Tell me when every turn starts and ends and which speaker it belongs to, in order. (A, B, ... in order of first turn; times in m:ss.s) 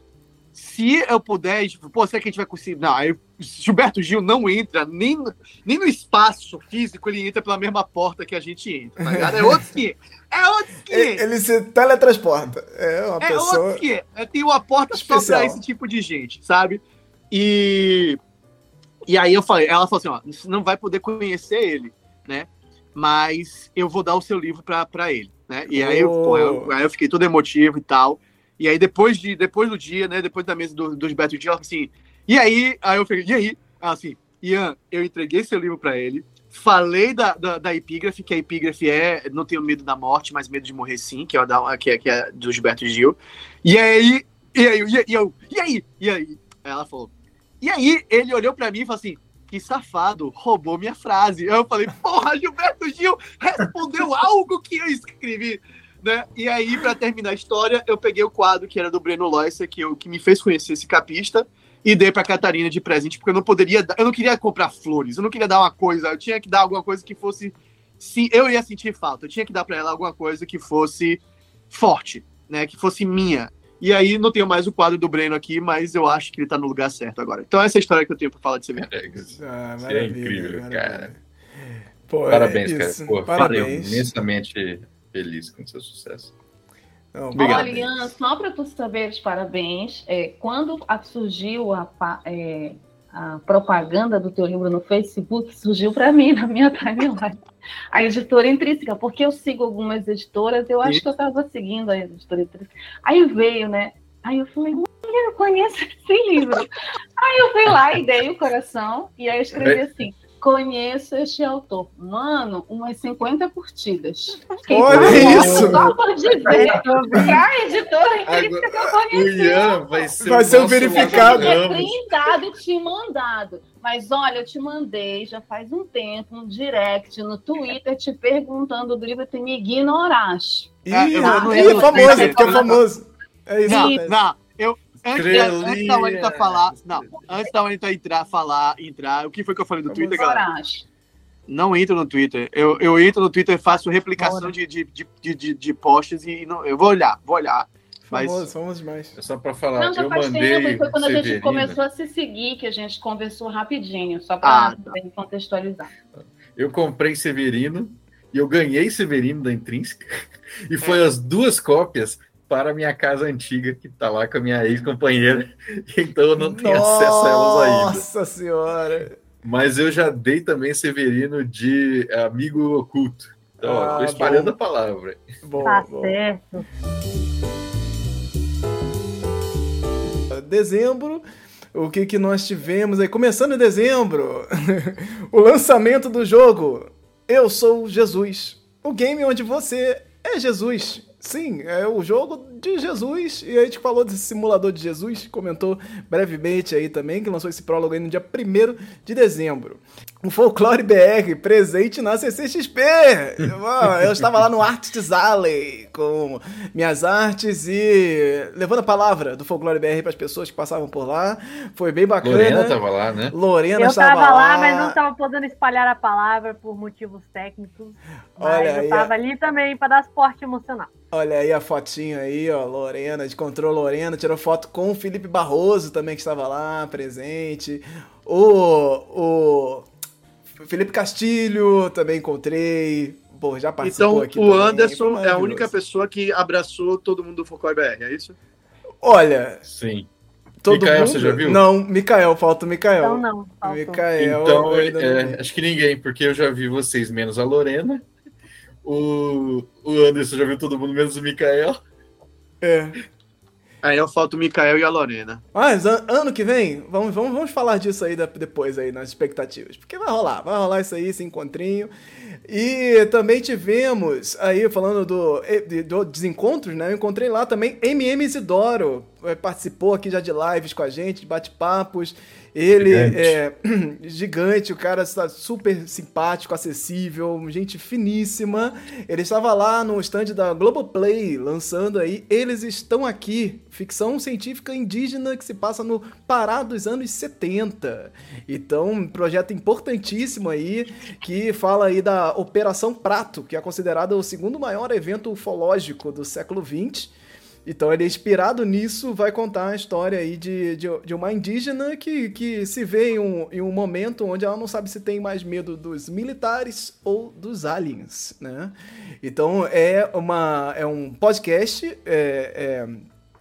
0:00.6-0:11.2 A
0:09.0-0:09.6 B
0:10.9-0:13.8 B
0:13.2-0:18.2 A
0:14.9-0:15.6 B
0:19.1-1:11.2 A
0:25.7-0:26.7 B
1:11.7-1:18.9 A
1:18.8-1:21.1 C
1:19.3-1:21.2 B
1:22.1-1:24.1 B
1:22.3-1:26.3 C
1:27.1-1:28.1 B
1:27.4-1:27.7 A
1:27.4-1:37.4 D
1:37.9-2:12.8 D
1:49.6-1:49.9 C
1:54.7-1:55.9 B
1:54.9-1:55.9 C
1:56.4-1:57.4 E
1:58.3-2:02.1 C
2:00.2-2:01.6 B
2:10.9-2:14.2 B
2:10.9-2:12.8 A
2:13.7-2:20.5 A
2:15.1-2:17.1 C
2:19.9-2:20.9 D
2:21.5-2:28.5 A
2:24.2-2:24.5 D
2:28.1-2:29.1 B
2:29.2-2:31.8 C
2:29.8-2:35.9 D
2:34.4-2:34.9 A
2:36.6-2:48.0 C
2:46.4-2:49.2 B
2:49.4-2:55.2 C
2:53.6-2:54.6 B
2:55.4-2:56.2 B
2:55.6-2:56.7 E
3:00.3-3:01.2 B
3:01.7-3:32.8 B
3:32.2-3:33.4 C
3:33.3-3:35.0 B
3:33.8-3:40.9 E
3:38.4-3:39.1 B
3:41.1-3:49.9 B
3:50.5-3:55.7 B
3:53.8-3:58.4 A
3:59.0-3:59.6 B
3:59.7-4:00.1 C
4:00.6-4:05.4 B
4:00.7-4:01.6 C
4:03.0-4:04.1 E
4:04.2-4:08.0 C
4:08.8-4:11.8 C
4:12.6-4:13.0 B
4:13.8-4:15.4 A
4:15.5-4:21.9 B
4:22.5-4:57.1 B
4:32.8-4:33.4 C
4:57.6-5:13.1 B